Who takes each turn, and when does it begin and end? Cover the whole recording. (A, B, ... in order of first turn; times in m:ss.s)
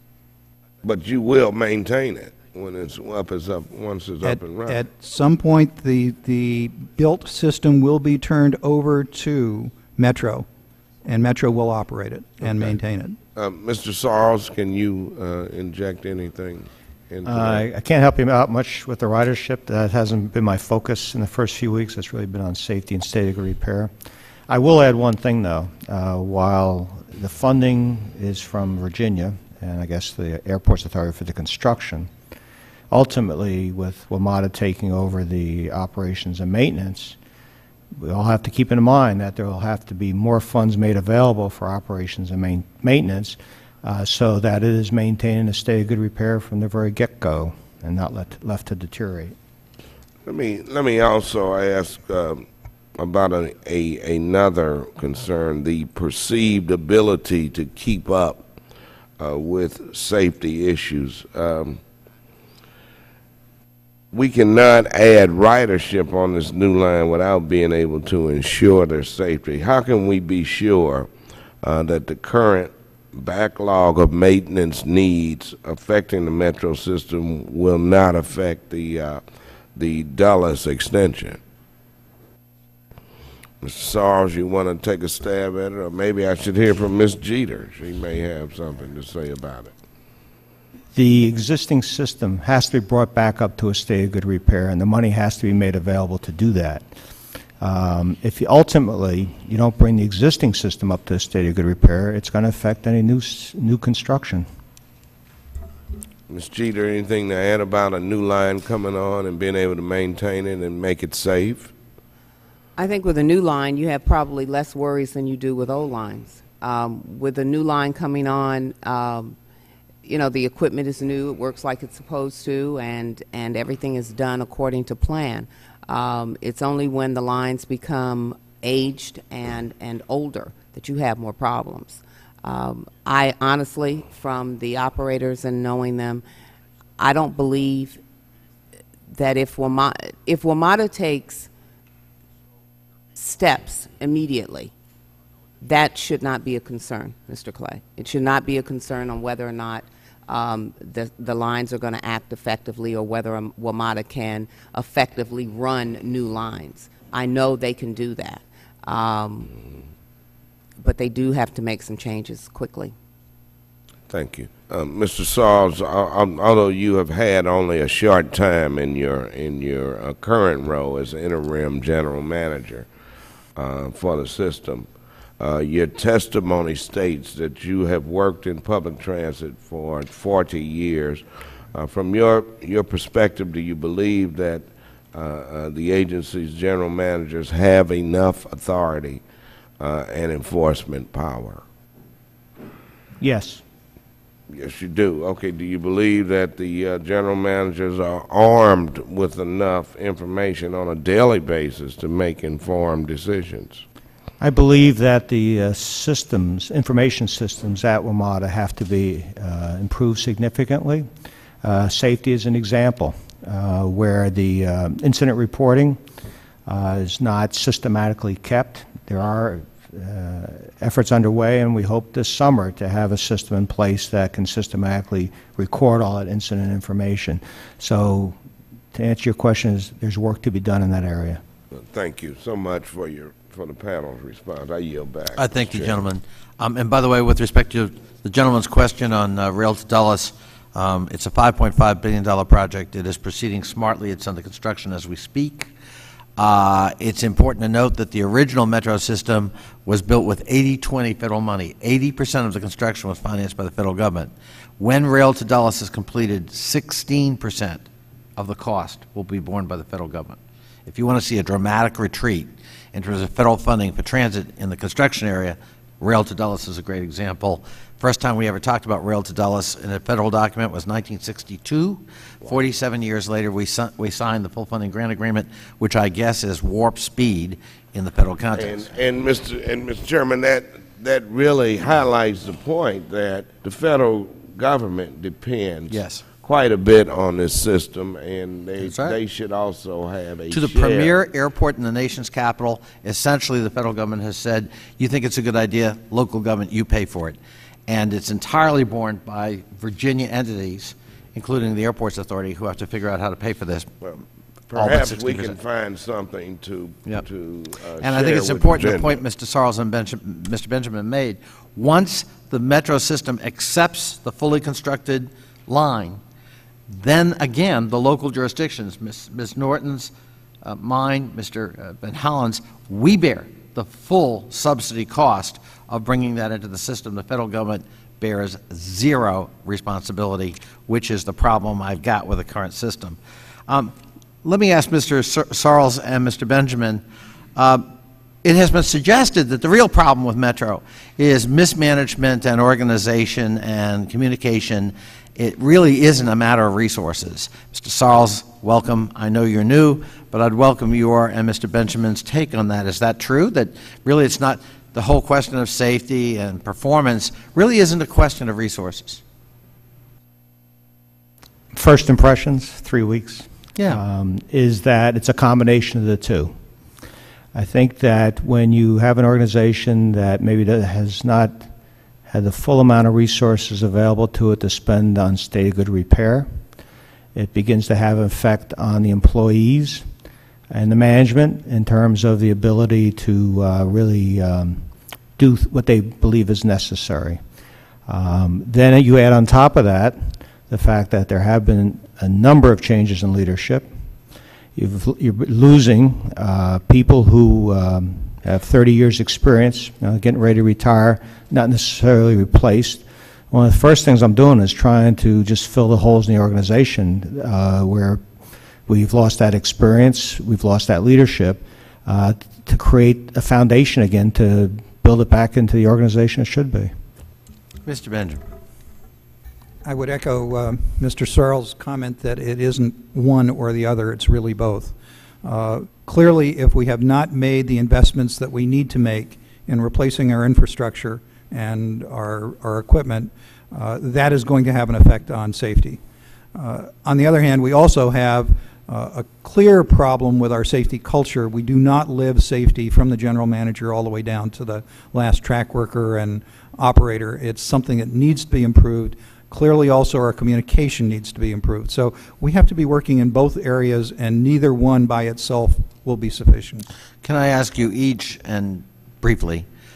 0:00.8-0:04.8 A
0:04.2-0:10.5 B
0:11.0-0:13.2 B
0:13.4-0:17.6 A
0:17.2-0:23.9 C
0:24.5-0:32.1 C
0:32.9-0:37.2 C
0:38.0-0:49.4 C
0:50.2-0:52.5 A
0:53.0-0:58.5 A
0:59.2-1:01.8 A
1:04.1-1:11.1 A
1:11.6-1:19.2 A
1:19.7-1:21.4 A
1:23.6-1:29.7 A
1:30.9-1:37.0 C
1:37.6-1:44.5 C
1:46.3-1:51.7 A
1:52.8-1:59.4 D
2:00.0-2:16.2 D
2:17.0-2:18.0 D
2:19.1-2:21.5 D
2:23.2-2:24.7 D
2:25.6-2:39.5 D
2:40.8-2:43.0 D
2:44.1-2:52.9 A
2:53.6-3:09.2 A
3:09.8-3:11.6 A
3:13.2-3:13.6 C
3:14.5-3:23.8 A
3:24.4-3:31.1 C
3:31.6-3:36.0 C
3:36.7-3:48.4 C
3:48.9-3:51.4 C
3:51.7-3:56.0 A
3:55.4-4:05.7 E
4:06.4-4:39.0 E
4:38.6-4:51.2 A
4:45.9-4:46.2 E
4:48.8-4:49.2 E
4:50.5-5:04.0 E
5:04.0-5:09.2 A
5:04.7-5:05.6 E
5:08.0-5:16.2 E
5:16.9-5:37.0 E
5:37.6-5:37.9 E
5:38.4-5:59.2 E
6:01.7-6:06.6 C
6:03.8-6:04.0 E
6:07.5-6:11.7 C
6:12.3-6:16.6 C
6:17.4-6:20.1 C
6:20.7-6:27.4 C
6:28.1-6:33.9 C
6:34.8-6:48.2 C
6:48.9-6:57.0 C
6:57.8-6:58.4 E
6:59.8-7:16.0 B
7:16.6-7:36.9 B
7:37.2-7:39.7 E